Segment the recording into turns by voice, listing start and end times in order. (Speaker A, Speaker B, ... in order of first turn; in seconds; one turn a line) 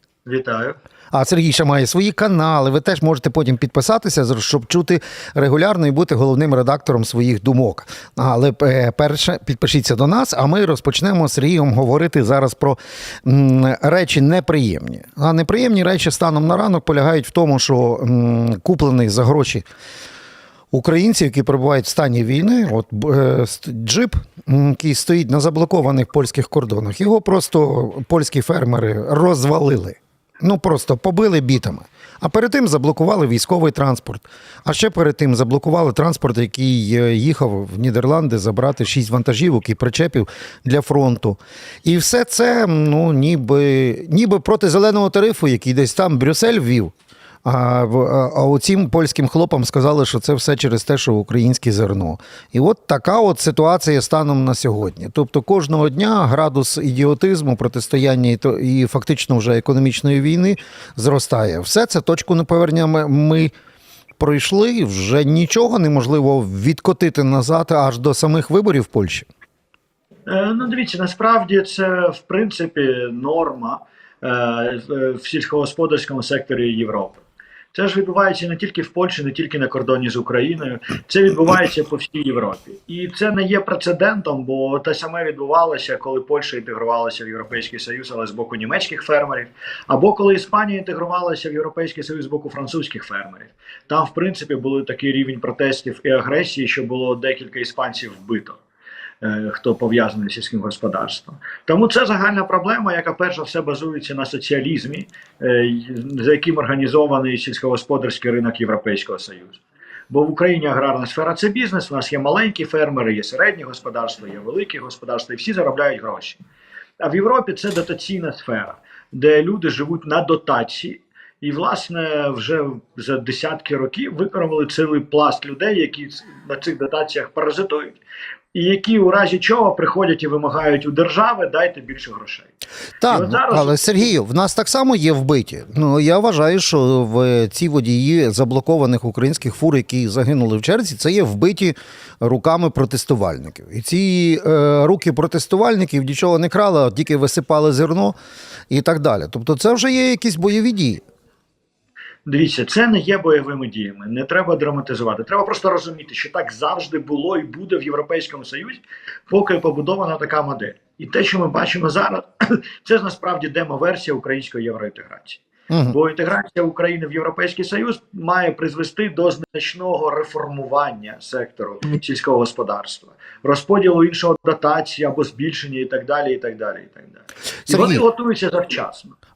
Speaker A: 0.2-0.8
Speaker B: 1.1-19.6
Speaker B: 20.7-46.9
Speaker B: 47.4-63.5
Speaker B: 64.2-69.3
Speaker A: 70.3-98.6
Speaker A: 99.2-116.4
Speaker A: 117.0-128.0
Speaker A: 128.5-132.5
Speaker B: 133.0-148.2
Speaker A: 133.1-134.1
Speaker B: 148.7-151.0
Speaker A: 152.2-179.1
Speaker B: 165.7-165.9
Speaker B: 177.7-178.0